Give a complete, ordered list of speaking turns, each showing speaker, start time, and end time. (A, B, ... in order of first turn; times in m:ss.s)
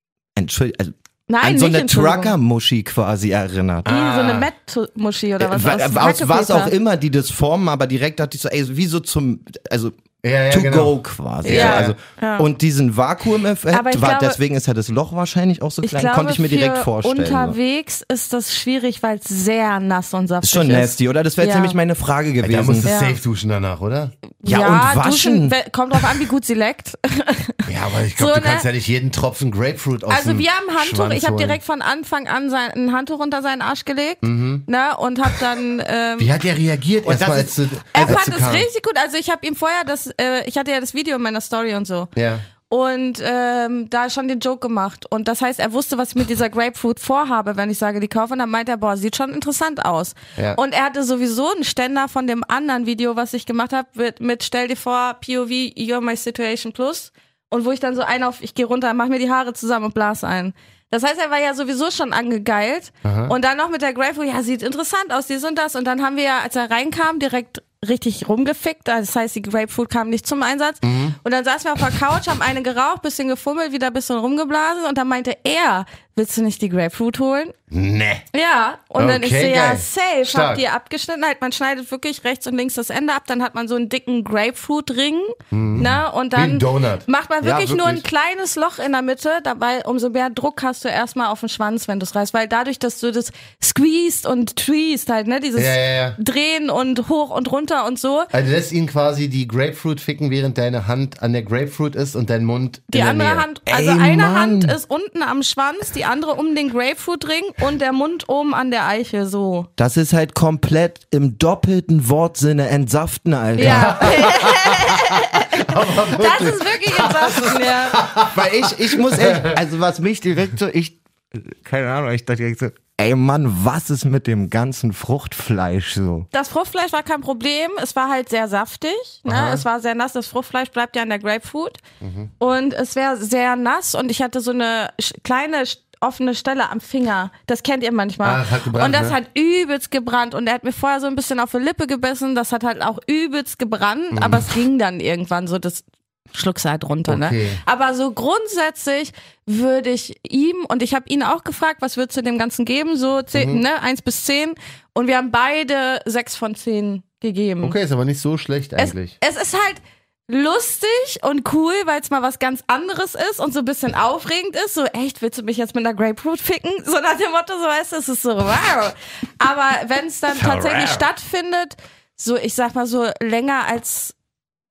0:00.4-0:03.8 A
0:01.3-0:02.3 B
0:03.8-0:04.5 C
0:03.8-0:06.7 B
0:05.4-0:09.9 A
0:10.2-0:12.0 C
0:10.5-0:17.6 A
0:11.4-0:12.5 B
0:13.7-0:14.4 B
0:15.8-0:21.8 B
0:20.4-0:22.9 A
0:22.4-0:24.1 C
0:22.8-0:23.2 B
0:24.4-0:28.6 B
0:24.4-0:25.5 A
0:27.7-0:31.6 C
0:30.1-0:36.3 B
0:34.2-0:34.6 C
0:36.2-0:38.7 C
0:37.0-0:37.5 A
0:37.9-0:42.1 B
0:42.2-0:42.4 C
0:42.7-1:17.5 B
1:03.0-1:03.3 C
1:10.8-1:11.2 C
1:17.7-1:18.2 C
1:18.3-1:38.3 B
1:19.0-1:20.6 C
1:25.5-1:27.0 C
1:27.4-1:28.0 A
1:35.6-1:36.2 C
1:38.3-1:43.5 C
1:42.9-1:49.7 B
1:43.7-1:44.8 A
1:49.8-1:54.2 A
1:53.6-1:58.0 B
1:53.6-1:59.5 C
1:58.2-2:06.3 A
2:06.3-2:11.8 B
2:09.2-2:09.6 C
2:12.0-2:12.3 C
2:12.4-2:37.8 B
2:18.2-2:19.2 C
2:24.1-2:24.5 C
2:27.1-2:27.6 C
2:33.3-2:33.6 C
2:37.6-2:39.2 C
2:38.8-2:54.1 B
2:50.3-2:51.0 C